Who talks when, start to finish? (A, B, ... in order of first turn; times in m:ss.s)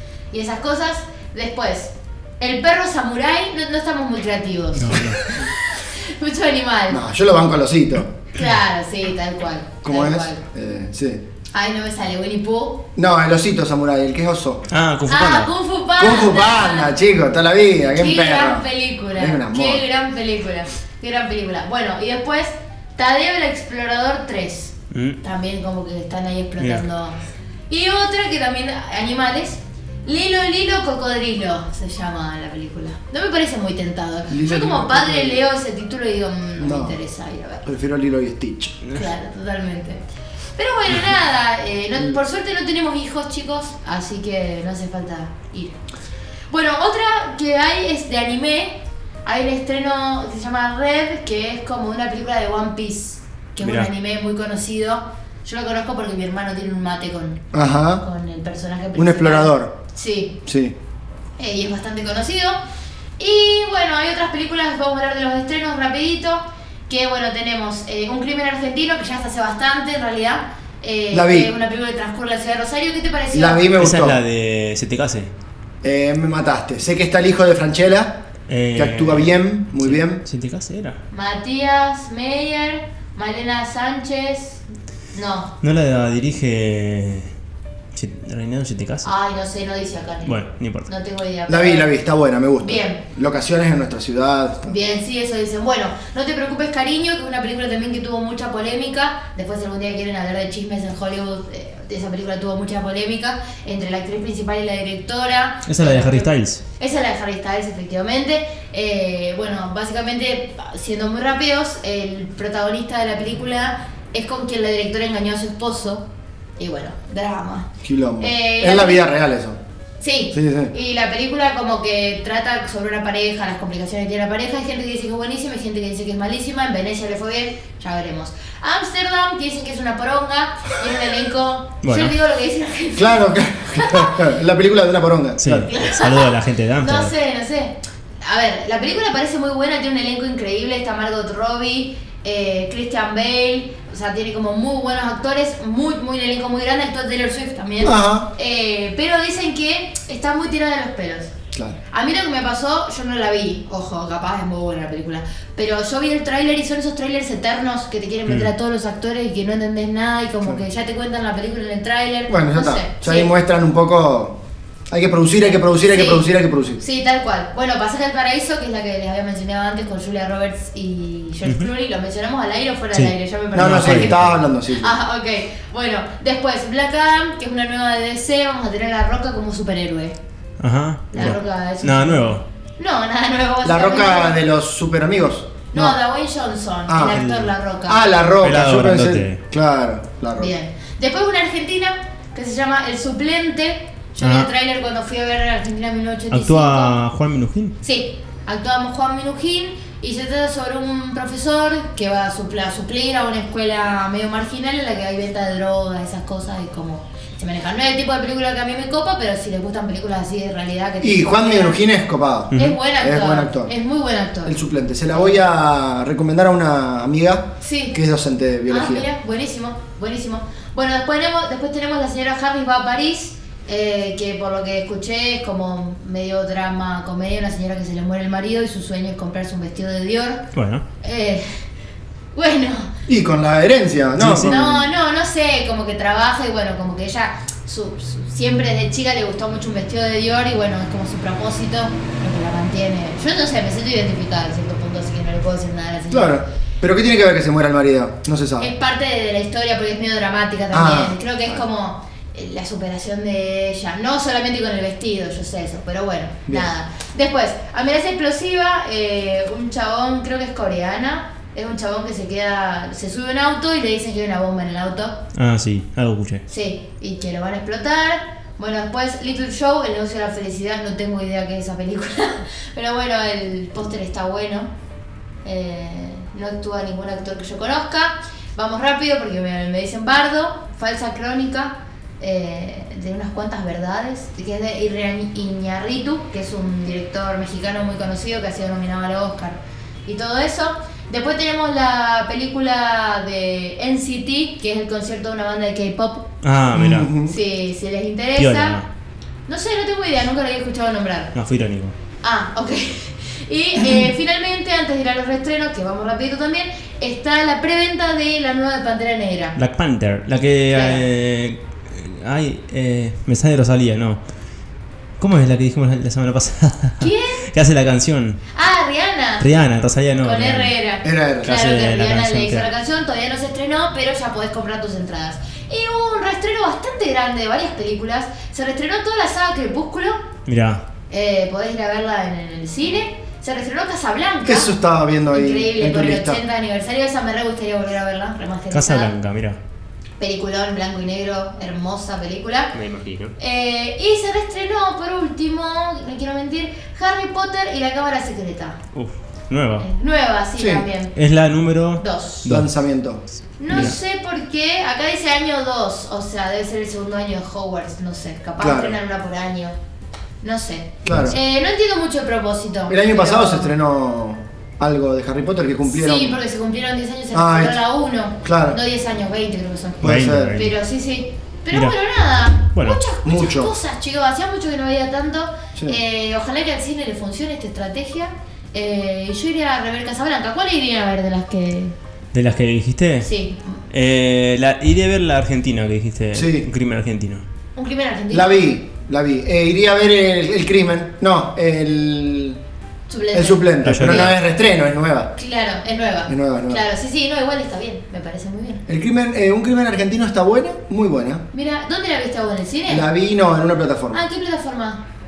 0:00.3-0:07.0 A
0:04.8-0:05.5 B
0:06.9-0:08.1 C
0:08.3-0:10.4 A
0:09.8-0:11.2 C
0:11.5-0:12.9 A
0:13.0-0:14.6 C
0:14.7-0:15.5 B
0:15.1-0:17.0 A
0:16.0-0:19.8 C
0:17.9-0:27.2 A
0:24.9-0:25.2 B
0:26.6-0:26.8 B
0:27.7-0:37.6 A
0:34.3-0:35.5 C
0:36.6-0:37.0 C
0:37.6-0:38.8 C
0:38.9-0:40.0 A
0:40.6-0:45.8 A
0:46.5-0:57.4 A
0:53.6-0:53.9 B
0:57.5-0:58.0 C
0:58.0-1:00.4 A
0:58.9-0:59.7 C
1:00.4-1:00.8 C
1:01.4-1:02.6 A
1:03.2-1:13.7 A
1:11.1-1:11.5 C
1:13.3-1:14.2 C
1:13.8-1:15.3 B
1:15.8-1:18.2 C
1:18.5-1:21.0 B
1:18.7-1:20.2 C
1:21.1-1:24.6 A
1:25.1-1:25.5 A
1:25.6-1:27.3 B
1:27.9-1:29.1 B
1:29.0-1:31.9 A
1:30.2-1:30.9 B
1:31.5-1:34.7 C
1:32.6-1:33.0 A
1:34.6-1:56.1 A
1:45.6-1:46.6 B
1:56.6-1:57.7 A
1:57.8-1:59.6 C
1:58.2-1:59.1 A
2:00.0-2:14.3 A
2:00.3-2:00.7 C
2:11.8-2:12.1 B
2:13.0-2:15.7 C
2:15.4-2:17.1 B
2:15.6-2:31.3 A
2:27.8-2:28.3 C
2:31.9-2:43.3 A
2:42.3-2:44.4 C
2:44.9-2:46.8 C
2:45.8-2:46.3 A
2:46.8-3:00.2 A
2:52.9-2:54.4 B
2:53.5-2:54.9 C
3:00.6-3:02.4 B
3:01.1-3:04.4 A
3:03.6-3:06.0 C
3:05.7-3:08.1 A
3:06.9-3:07.2 C
3:07.1-3:07.5 B
3:07.9-3:10.5 C
3:08.4-3:09.4 B
3:10.4-3:17.0 A
3:14.2-3:14.5 B
3:16.3-3:17.7 B
3:17.8-3:31.8 A
3:31.0-3:33.7 C
3:32.5-3:32.8 B
3:32.5-3:34.6 A
3:34.4-3:39.0 C
3:35.1-3:35.4 A
3:37.6-3:38.0 A
3:38.7-3:50.5 A
3:50.5-3:50.8 B
3:51.0-3:51.4 A
3:52.3-3:52.9 A
3:53.1-3:54.8 C
3:54.2-3:54.6 B
3:54.4-4:06.4 A
4:06.1-4:08.7 C
4:08.6-4:25.2 A
4:10.7-4:11.2 C
4:25.3-4:26.4 B
4:26.5-4:34.7 A
4:35.4-4:56.3 A
4:56.4-4:57.1 B
4:56.7-4:57.3 C
4:57.2-4:58.8 A
4:58.4-4:58.9 B
4:59.5-5:01.3 A
5:01.3-5:01.9 B
5:02.2-5:09.6 A
5:09.6-5:14.2 B
5:10.7-5:11.0 A
5:15.2-5:18.4 B
5:17.0-5:17.5 A
5:18.5-5:19.5 A
5:19.4-5:20.7 B
5:20.2-5:30.2 A
5:21.0-5:21.5 C
5:21.4-5:22.7 B
5:30.4-5:30.8 B
5:31.1-5:34.7 A
5:34.4-5:36.4 C
5:35.3-5:39.1 A
5:38.7-5:39.6 B
5:40.2-5:42.7 A
5:42.7-5:43.3 B
5:43.4-5:48.8 A
5:48.9-5:49.8 B
5:49.8-5:51.1 A
5:50.6-5:50.8 C
5:51.1-5:52.7 B
5:52.0-5:52.5 A
5:52.4-5:54.0 C
5:53.6-5:59.8 A
5:53.7-5:54.0 B
5:58.6-5:59.0 C
6:00.4-6:03.7 A
6:01.0-6:01.4 C
6:01.0-6:01.4 B
6:02.9-6:06.4 C
6:05.8-6:21.9 A
6:07.3-6:07.8 C
6:08.4-6:08.8 C
6:10.0-6:10.6 C
6:10.0-6:10.7 B
6:12.7-6:13.0 B
6:13.2-6:13.7 C
6:22.3-6:23.3 B
6:23.2-6:23.8 A
6:23.9-6:27.4 B
6:26.3-6:26.7 C
6:27.7-6:28.7 A
6:28.3-6:32.6 C
6:33.1-6:34.3 A
6:33.3-6:35.3 C
6:33.8-6:34.4 B
6:35.4-6:38.8 A
6:36.3-6:36.8 C
6:38.9-6:41.4 C
6:41.5-6:43.1 A
6:42.9-6:44.2 C
6:44.1-6:45.0 A